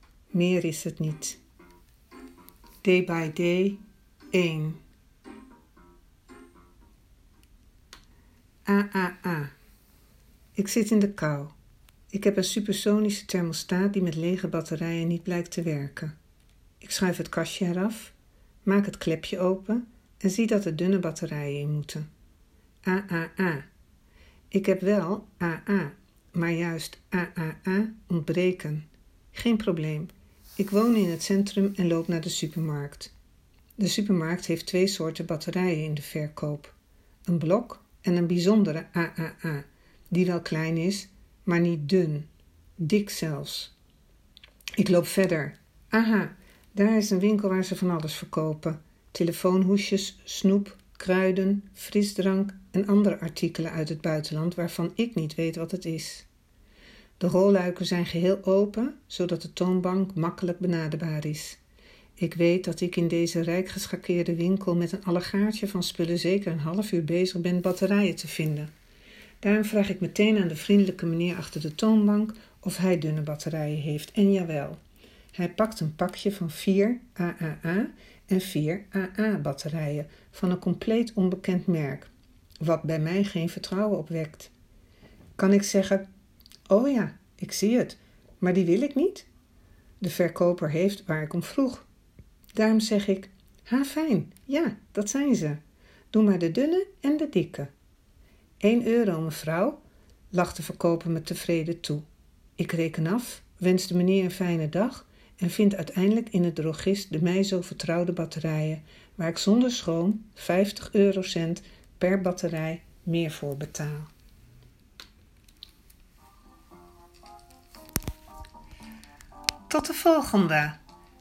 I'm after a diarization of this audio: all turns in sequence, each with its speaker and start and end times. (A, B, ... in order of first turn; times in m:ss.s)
0:00.3-0:01.4 A
0:02.8-0:03.8 A
0:04.3-0:04.8 A
0:08.6-0:09.5 A
0:10.6-0:11.5 A
0:12.1-0:16.2 A
0:16.8-0:18.1 A
0:18.6-0:22.1 A
0:22.8-0:23.7 A
0:24.5-0:33.1 A
0:33.8-0:36.7 A
0:37.2-0:42.3 A
0:42.8-0:43.7 A
0:44.8-0:56.2 A
0:57.2-1:01.6 A
1:02.2-1:08.7 A
1:09.4-1:14.8 A
1:15.3-1:22.1 A
1:22.6-1:24.5 A
1:25.4-1:26.1 A
1:26.7-1:29.3 A
1:30.0-1:31.8 A
1:32.6-1:35.6 A
1:36.1-1:37.7 A
1:38.6-1:39.8 A
1:40.3-1:42.1 A
1:42.6-1:54.1 A
1:59.7-2:00.8 A